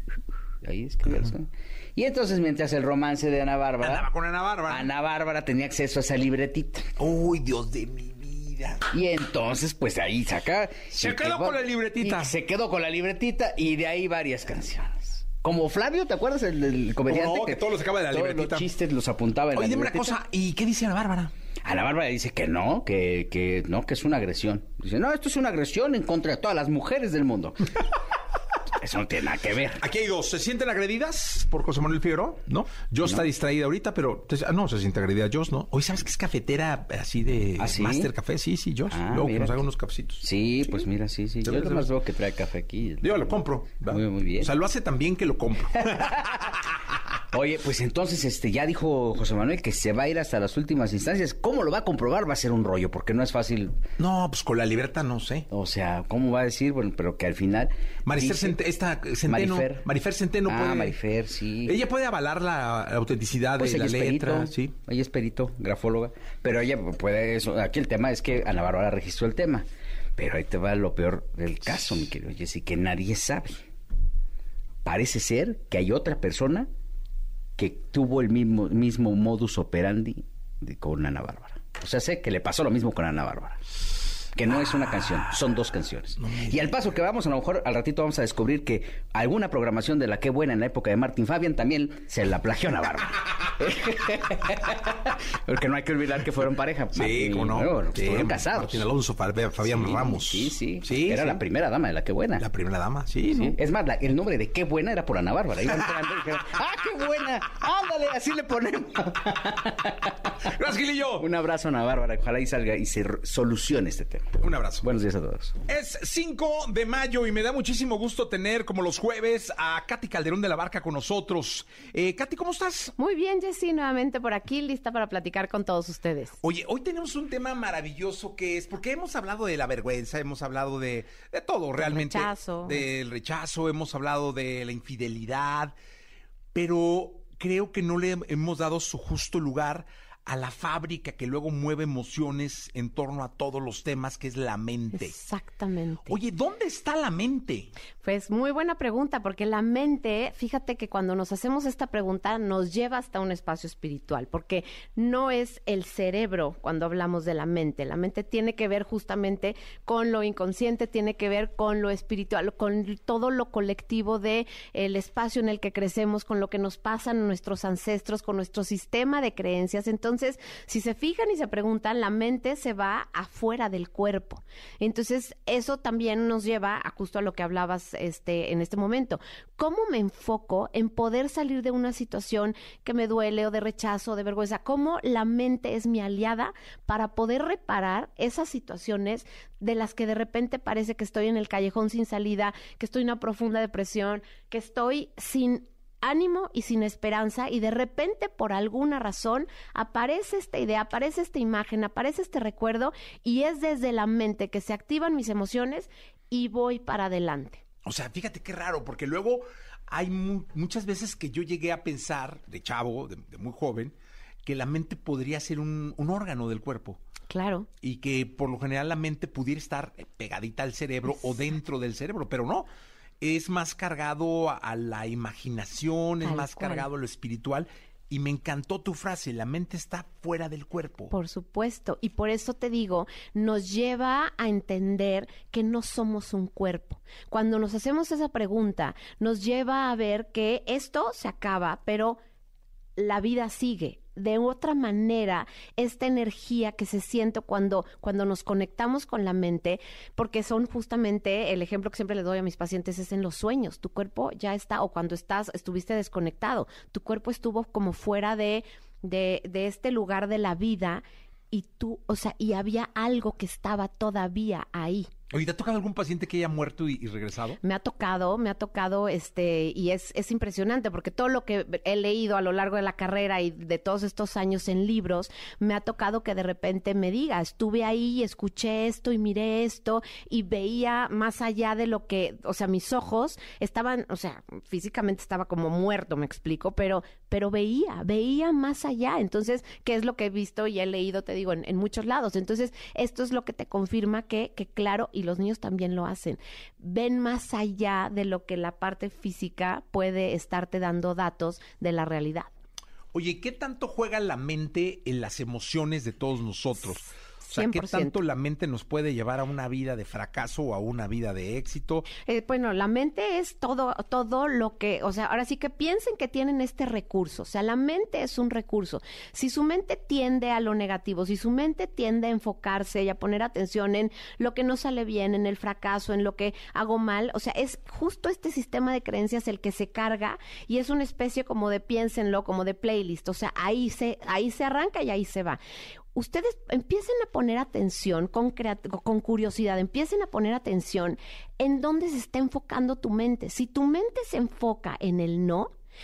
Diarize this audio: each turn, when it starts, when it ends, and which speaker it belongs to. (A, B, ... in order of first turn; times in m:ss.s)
0:00.6-0:04.1 A
0:03.8-0:04.9 B
0:04.7-0:06.9 A
0:07.0-0:08.8 B
0:08.9-0:20.2 A
0:11.0-0:12.3 B
0:17.1-0:18.7 B
0:19.5-0:21.3 B
0:21.6-0:27.8 A
0:28.8-0:29.8 A
0:29.8-0:40.9 B
0:33.0-0:33.3 A
0:37.6-0:38.1 A
0:38.9-0:39.7 A
0:40.2-0:44.5 A
0:41.4-0:41.9 B
0:43.0-0:46.6 B
0:45.9-0:46.4 A
0:47.3-0:53.8 A
0:54.0-0:55.5 B
0:55.5-0:58.6 A
0:58.1-1:01.0 B
0:59.2-0:59.9 A
1:00.4-1:01.8 A
1:01.6-1:04.7 B
1:03.6-1:09.7 A
1:10.2-1:13.6 A
1:14.8-1:16.7 A
1:17.6-1:23.6 A
1:24.3-1:38.9 A
1:24.8-1:25.2 B
1:26.2-1:26.8 B
1:36.9-1:41.4 B
1:39.6-1:42.5 A
1:42.4-1:43.6 B
1:43.3-1:50.6 A
1:50.4-1:51.3 B
1:51.2-1:55.6 A
1:54.4-1:54.9 B
1:55.7-2:02.9 B
2:03.0-2:06.4 C
2:06.4-2:15.7 B
2:11.8-2:12.9 C
2:16.5-2:25.2 B
2:24.9-2:26.2 C
2:26.1-2:27.7 B
2:28.0-3:27.6 C
3:27.8-3:33.9 B
3:34.4-3:37.0 B
3:37.3-3:37.7 C
3:37.8-3:42.7 B
3:43.2-3:51.1 B
3:46.2-3:46.9 C
3:51.1-4:02.2 C
4:03.0-4:25.1 C
4:25.3-4:27.6 B
4:27.6-5:02.5 C
5:03.1-5:12.1 B
5:07.5-5:08.2 C
5:12.3-5:35.6 C
5:36.2-5:45.7 C